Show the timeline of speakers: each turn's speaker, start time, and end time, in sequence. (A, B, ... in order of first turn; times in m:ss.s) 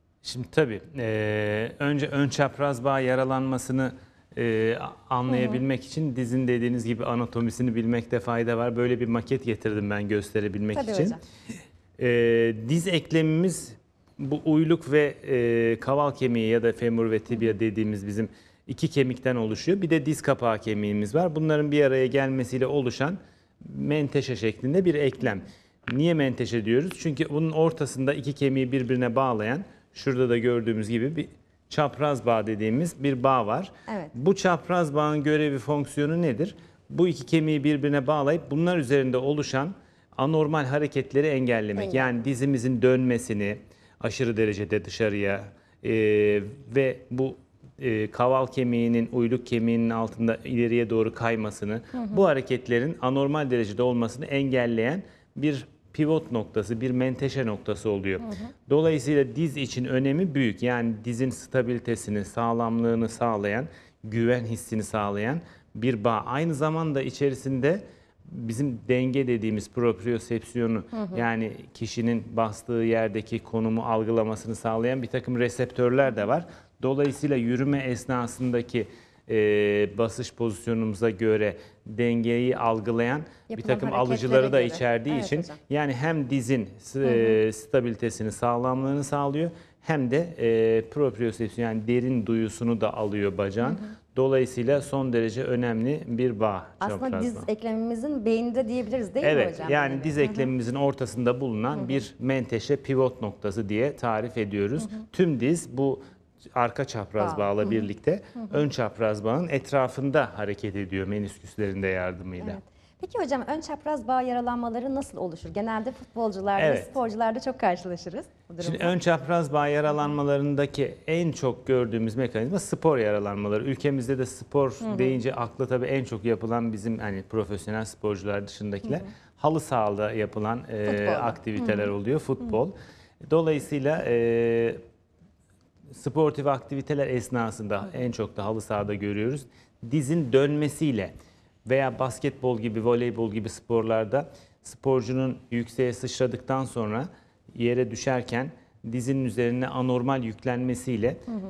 0:00.2-0:11.2 A
0:05.3-0:05.6 B
0:10.7-0:11.2 B
0:12.0-1:37.5 A
0:33.9-0:34.1 B
0:41.8-0:42.2 B
0:58.2-0:58.5 B
1:23.5-1:25.6 B
1:27.0-1:27.3 B
1:33.6-1:33.9 B
1:36.8-1:40.5 B
1:39.2-1:46.0 A
1:46.5-1:52.6 A
1:47.2-1:47.8 B
1:52.4-1:59.0 B
1:56.6-1:56.9 A
1:58.6-2:14.8 A
2:04.8-2:05.2 B
2:10.8-2:11.4 B
2:15.9-2:21.1 A
2:21.6-2:31.2 A